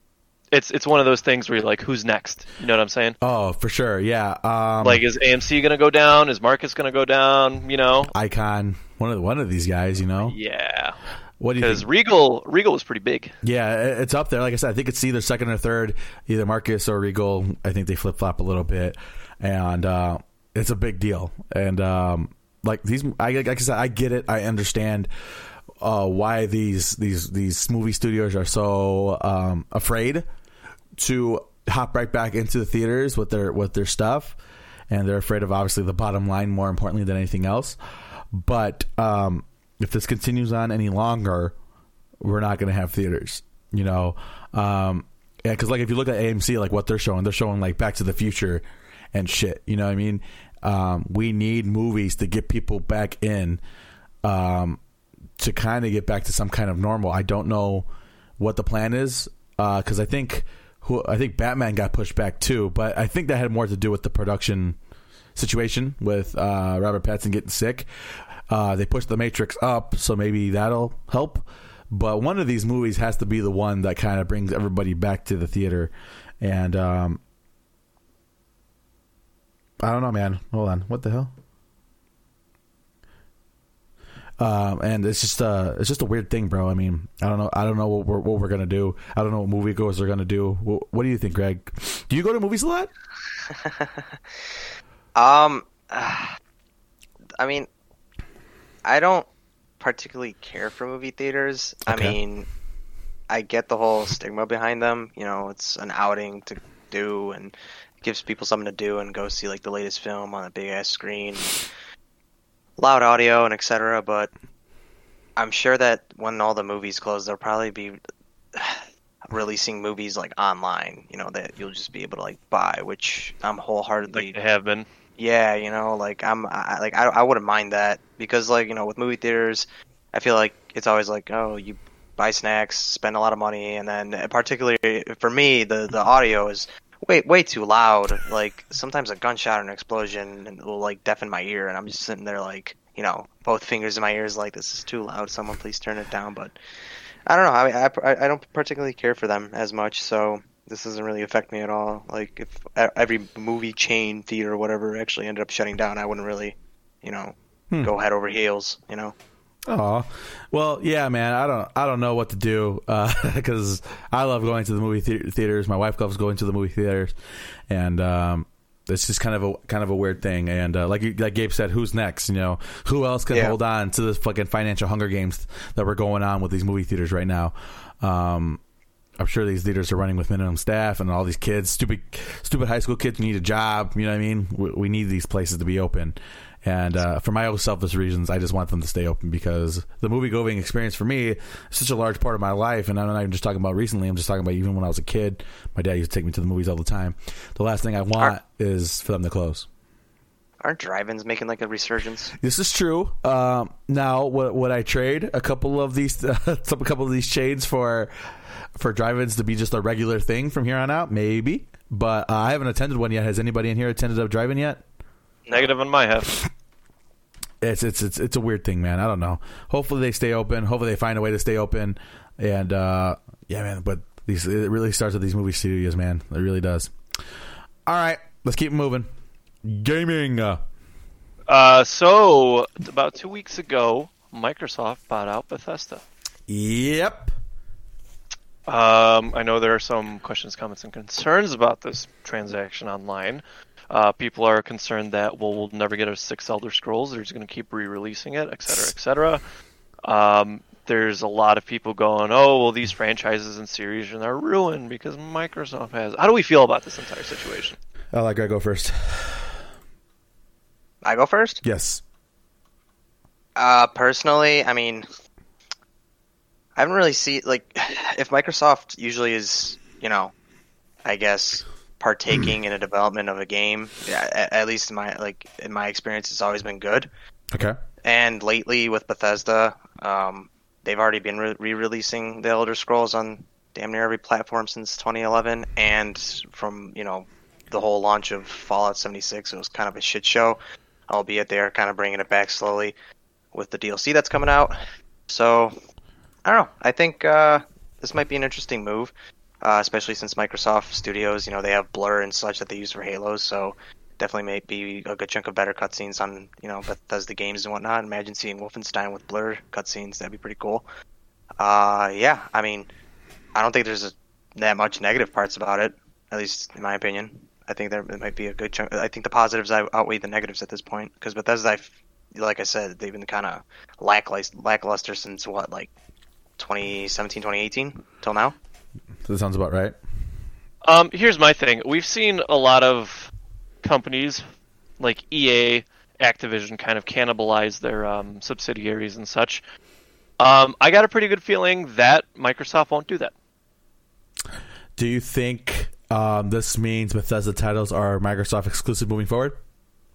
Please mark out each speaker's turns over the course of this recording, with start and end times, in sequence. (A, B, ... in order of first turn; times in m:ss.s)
0:00.5-0:03.2 A
0:03.2-0:05.0 B
0:04.8-0:08.1 A
0:08.1-0:10.4 B
0:10.2-0:11.0 A
0:11.4-0:11.8 B
0:11.6-0:13.4 A
0:13.4-0:25.1 B
0:25.8-0:30.2 B
0:31.0-0:34.4 B
0:34.9-0:37.8 B
0:38.3-0:41.6 B
0:42.2-0:53.6 B
0:54.2-0:54.8 B
0:55.4-0:57.9 B
0:58.4-1:04.8 B
1:05.4-1:07.9 B
1:08.5-1:17.2 B
1:19.8-1:21.3 B
1:24.4-1:32.9 B
1:33.5-1:34.1 C
1:35.1-1:36.4 C
1:37.4-1:37.7 C
1:38.8-1:39.3 C
1:39.8-1:42.5 C
1:41.9-1:42.2 B
1:43.3-1:51.6 C
1:52.8-1:54.3 C
1:55.4-1:58.0 C
1:58.5-2:04.4 C
2:04.1-2:04.9 A
2:05.2-2:26.6 C
2:27.3-2:39.1 C
2:39.6-2:47.1 B
2:47.7-2:58.6 B
2:59.2-3:19.6 B
3:20.6-3:22.4 C
3:22.4-3:28.1 B
3:28.7-3:34.8 B
3:35.5-3:36.4 A
3:37.6-3:46.9 B
3:47.9-3:49.1 B
3:49.6-3:50.6 B
3:51.5-3:56.0 A
3:56.5-3:57.3 B
3:58.7-4:09.4 A
4:10.0-4:17.8 A
4:18.1-4:19.6 B
4:21.0-4:21.6 C
4:21.6-4:22.0 B
4:23.6-4:25.1 C
4:26.8-4:30.3 C
4:31.0-4:37.1 C
4:37.5-4:37.8 B
4:38.0-4:52.9 C
4:53.5-4:55.7 C
4:56.4-5:10.9 C
5:11.6-5:12.9 C
5:13.6-5:25.9 C
5:26.6-5:28.6 C
5:29.2-5:30.0 B
5:30.8-5:33.3 A
5:33.8-5:34.4 A
5:35.0-5:39.6 A
5:40.4-5:43.3 A
5:45.0-5:49.6 B